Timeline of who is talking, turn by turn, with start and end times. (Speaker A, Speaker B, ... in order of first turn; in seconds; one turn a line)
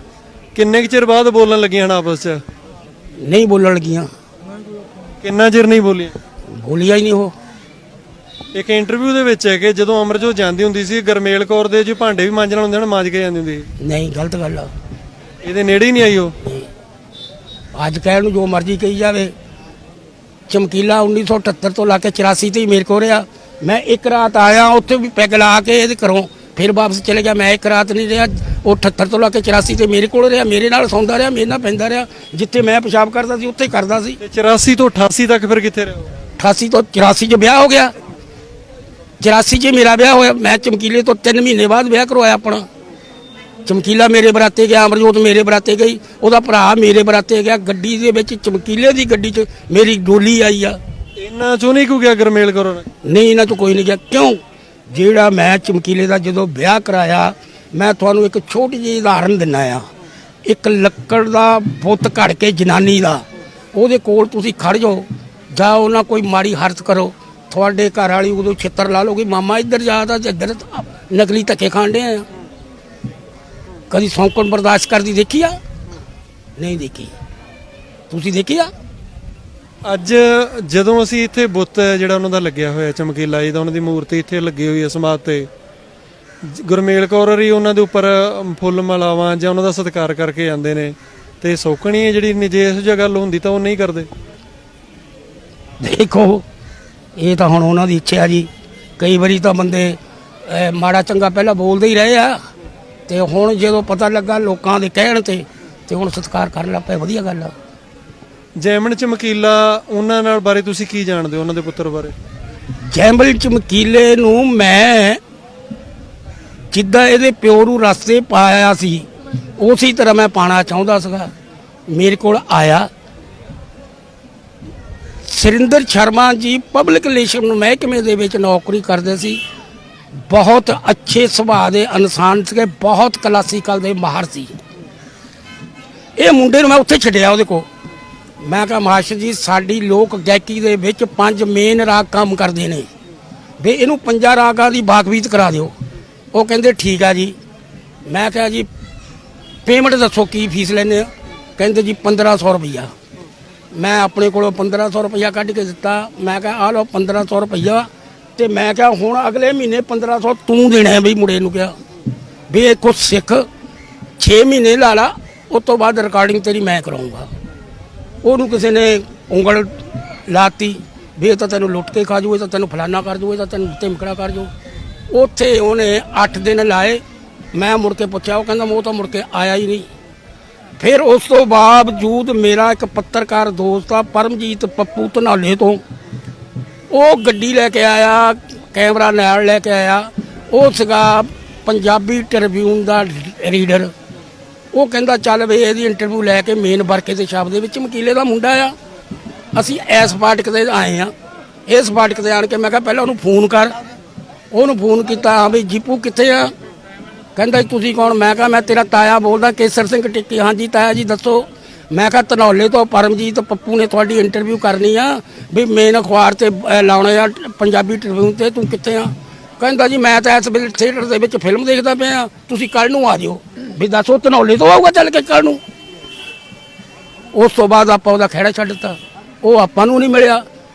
Speaker A: 0.6-2.4
Speaker B: 3.2-4.1
Speaker A: 5.2-6.2
Speaker B: 6.5-7.3
Speaker A: 8.5-13.7
Speaker B: 13.8-14.7
Speaker A: 15.4-16.3
Speaker B: 17.7-19.3
Speaker B: 20.5-34.2
Speaker A: 34.2-36.1
Speaker B: 36.4-37.9
Speaker B: 39.2-42.6
Speaker B: 43.7-50.8
Speaker A: 51.2-52.9
Speaker B: 53.0-54.4
Speaker B: 54.9-59.8
Speaker B: 60.5-72.3
Speaker B: 73.9-75.6
Speaker B: 76.6-77.1
Speaker B: 78.1-78.7
Speaker A: 79.8-85.5
Speaker A: 86.5-94.1
Speaker B: 95.8-96.5
Speaker B: 97.2-102.4
Speaker B: 103.1-107.5
Speaker A: 108.6-112.1
Speaker B: 112.9-115.2
Speaker B: 116.7-119.1
Speaker B: 119.6-121.3
Speaker B: 121.9-122.9
Speaker B: 125.2-129.4
Speaker B: 130.3-134.5
Speaker B: 136.2-137.7
Speaker B: 138.4-142.9
Speaker B: 143.6-145.7
Speaker B: 146.3-147.4
Speaker B: 148.1-148.7
Speaker B: 149.7-152.9
Speaker B: 153.7-161.7
Speaker B: 162.5-163.5
Speaker B: 164.2-167.3
Speaker B: 168.2-174.5
Speaker B: 175.1-177.0
Speaker B: 177.5-179.9
Speaker B: 180.8-185.8
Speaker B: 186.9-193.9
Speaker B: 194.7-198.8
Speaker B: 199.5-201.1
Speaker B: 201.7-203.8
Speaker B: 204.5-206.5
Speaker B: 207.4-225.6
Speaker B: 227.3-230.4